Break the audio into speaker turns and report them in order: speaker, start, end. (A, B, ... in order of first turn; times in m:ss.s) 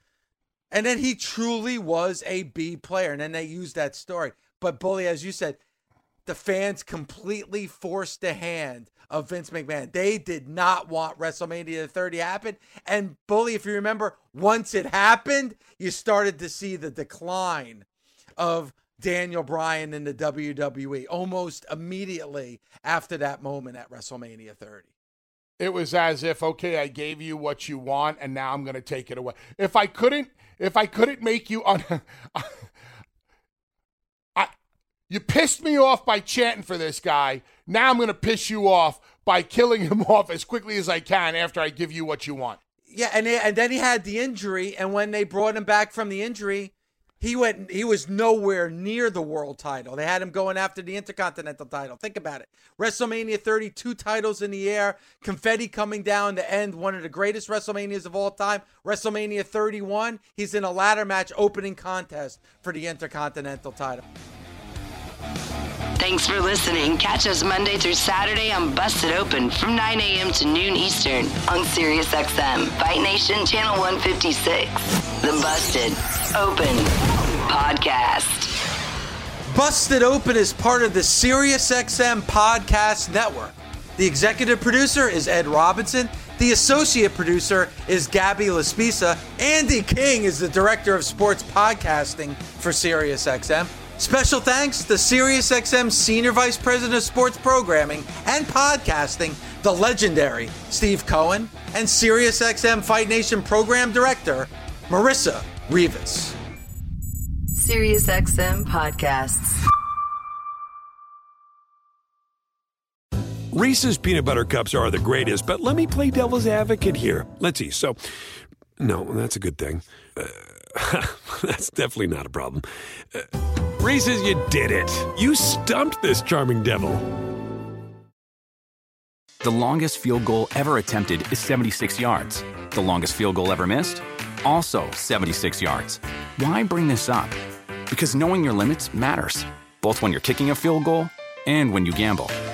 0:00.7-0:05.6 A
0:06.3-0:17.9 A
0:18.4-0:24.9 A
0:25.6-0:32.7 B
0:35.1-0:42.6 B
0:42.9-1:04.0 A
1:06.0-1:16.9 C
1:17.5-1:18.5 C
1:19.5-1:46.4 A
1:47.5-1:49.6 C
1:53.5-2:07.1 D
2:09.4-2:17.4 E
2:17.9-2:22.3 E